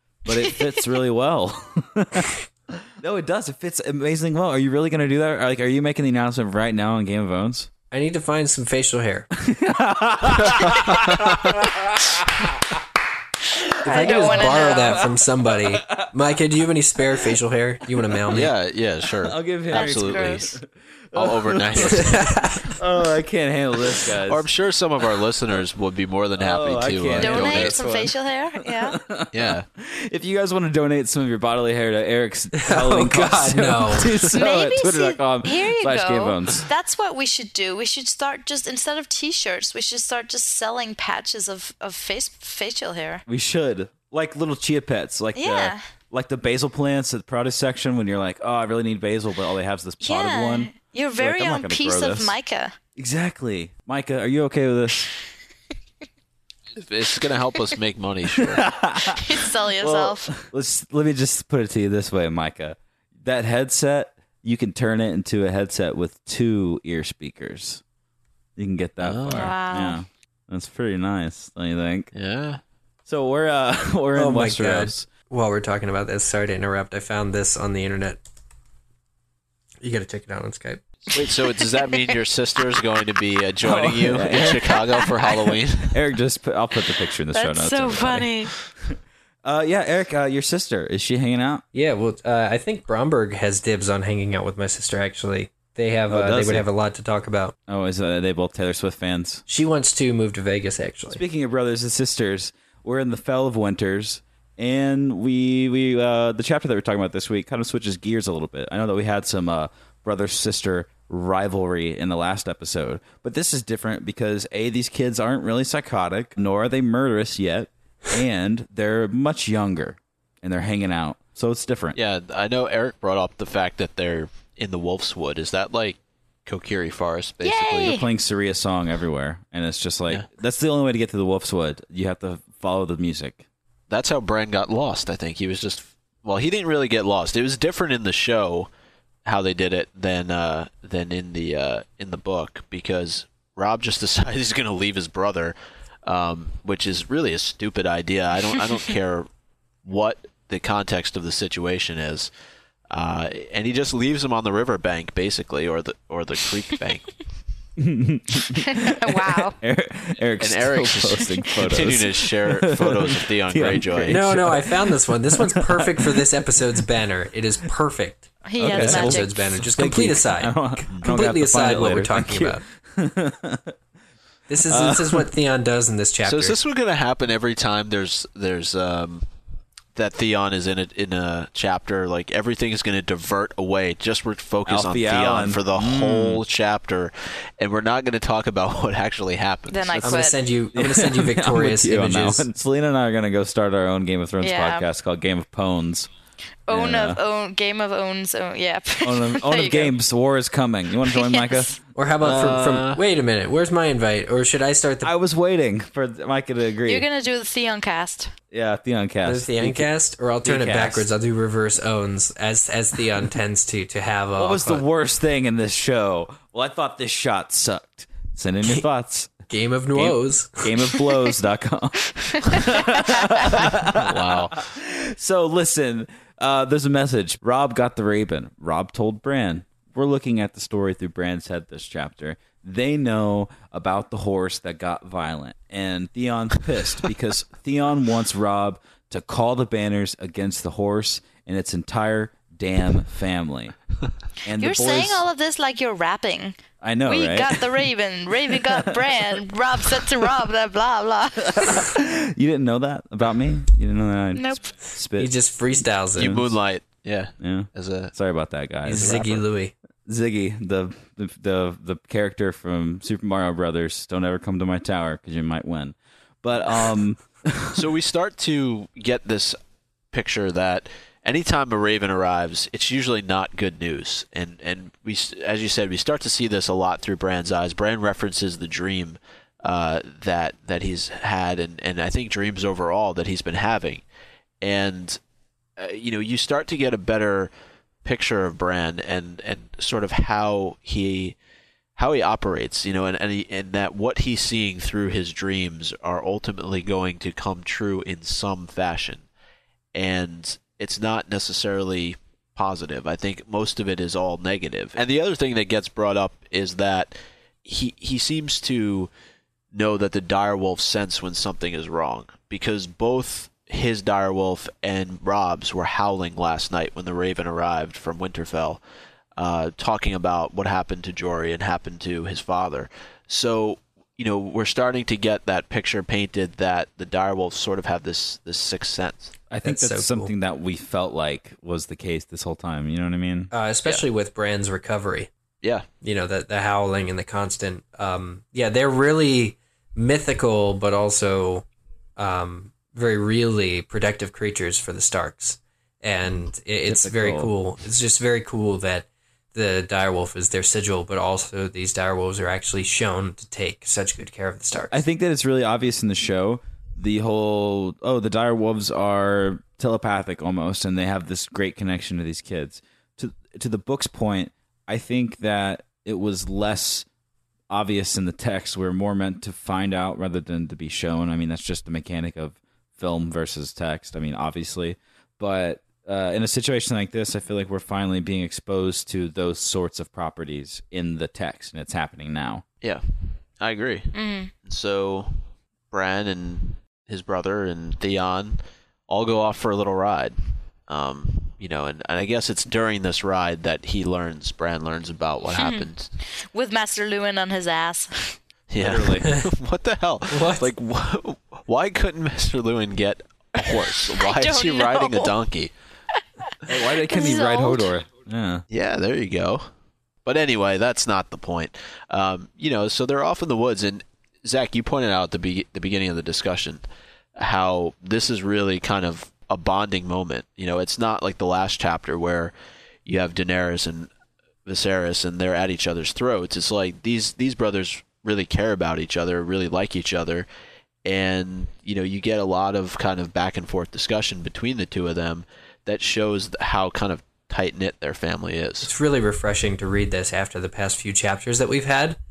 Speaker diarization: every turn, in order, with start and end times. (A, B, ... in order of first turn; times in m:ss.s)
0:00.3-0:07.7 A
0:07.9-0:09.3 B
0:09.4-0:12.8 A
0:10.4-0:10.8 C
0:11.0-0:11.5 B
0:13.6-0:16.1 A
0:13.8-0:15.0 D
0:13.8-0:18.5 B
0:17.0-0:17.3 A
0:18.0-0:18.5 A
0:18.3-0:20.6 C
0:19.2-0:24.5 A
0:19.7-0:20.6 D
0:21.2-0:22.2 C
0:21.8-0:22.7 B
0:24.2-0:27.8 C
0:26.4-0:36.7 A
0:27.2-0:29.0 D
0:29.3-0:29.7 C
0:32.6-0:34.4 B
0:34.4-0:43.2 D
0:43.3-0:52.4 A
0:45.4-0:45.8 D
0:50.0-0:52.8 D
0:53.0-0:55.1 A
0:56.8-0:58.7 C
0:58.4-1:07.8 A
0:59.0-1:00.3 D
1:08.6-1:12.1 A
1:09.0-1:09.6 C
1:09.3-1:10.0 D
1:12.1-1:12.6 C
1:13.1-1:15.1 A
1:14.2-1:18.2 B
1:19.8-1:20.8 B
1:21.1-1:26.0 C
1:21.2-1:22.1 D
1:23.6-1:24.8 A
1:24.4-1:25.1 D
1:25.9-1:31.6 A
1:27.3-1:28.5 D
1:31.7-1:37.6 B
1:36.1-1:36.7 A
1:37.7-1:39.4 A
1:39.5-1:41.2 B
1:41.1-2:02.0 A
2:01.9-2:08.0 C
2:07.4-2:08.1 D
2:07.8-2:13.4 A
2:13.9-2:18.7 C
2:19.2-2:29.3 C
2:29.8-2:32.3 C
2:32.9-2:37.2 C
2:37.8-2:46.8 A
2:38.5-2:39.6 D
2:40.4-2:44.2 C
2:44.1-2:52.6 B
2:48.4-2:49.3 D
2:48.6-2:53.8 A
2:54.5-2:56.6 B
2:54.7-2:55.3 A
2:56.2-2:59.3 C
3:00.0-3:10.3 C
3:04.7-3:06.4 A
3:09.7-3:10.4 D
3:10.0-3:12.5 B
3:10.7-3:16.1 A
3:14.4-3:14.9 D
3:16.7-3:19.9 D
3:16.7-3:17.2 A
3:19.0-3:23.0 A
3:21.1-3:21.8 D
3:22.0-3:25.1 B
3:25.0-3:27.1 A
3:26.8-3:28.3 D
3:28.5-3:29.9 A
3:29.2-3:34.8 B
3:30.4-3:31.1 A
3:34.4-3:39.3 A
3:39.5-3:41.0 B
3:40.0-4:03.8 A
3:42.2-3:43.4 D
3:43.5-3:44.7 C
4:04.4-4:05.2 A
4:04.6-4:11.9 D
4:06.8-4:07.6 A
4:08.5-4:09.2 A
4:11.4-4:15.3 A
4:14.3-4:14.7 D
4:15.2-4:16.4 B
4:16.2-4:16.5 A
4:16.2-4:18.1 C
4:17.4-4:19.4 A
4:18.8-4:19.7 B
4:18.9-4:19.3 C
4:20.1-4:27.8 A
4:27.7-4:29.6 C
4:30.1-4:44.0 C
4:44.6-4:45.2 C
4:45.8-4:47.5 C
4:48.0-4:51.4 C
4:52.0-4:59.3 C
4:59.9-5:09.1 C
5:09.7-5:18.8 C
5:19.4-5:29.3 C
5:29.5-5:33.5 A
5:29.6-5:30.3 B
5:33.5-5:35.3 B
5:36.0-5:41.7 B
5:42.2-5:55.0 B
5:46.9-5:47.5 A
5:54.9-6:07.1 A
6:07.7-6:22.6 A
6:22.8-6:36.1 C
6:24.1-6:24.5 D
6:35.6-6:38.4 D
6:38.7-6:45.7 C
6:38.8-6:39.3 A
6:40.3-6:40.7 B
6:44.0-6:45.4 D
6:46.7-6:48.7 A
6:47.1-6:47.9 D
6:48.7-6:49.7 C
6:50.2-6:56.8 C
6:57.4-7:02.5 C
7:03.1-7:04.1 C
7:04.7-7:10.5 C
7:11.0-7:18.9 C
7:18.8-7:22.2 B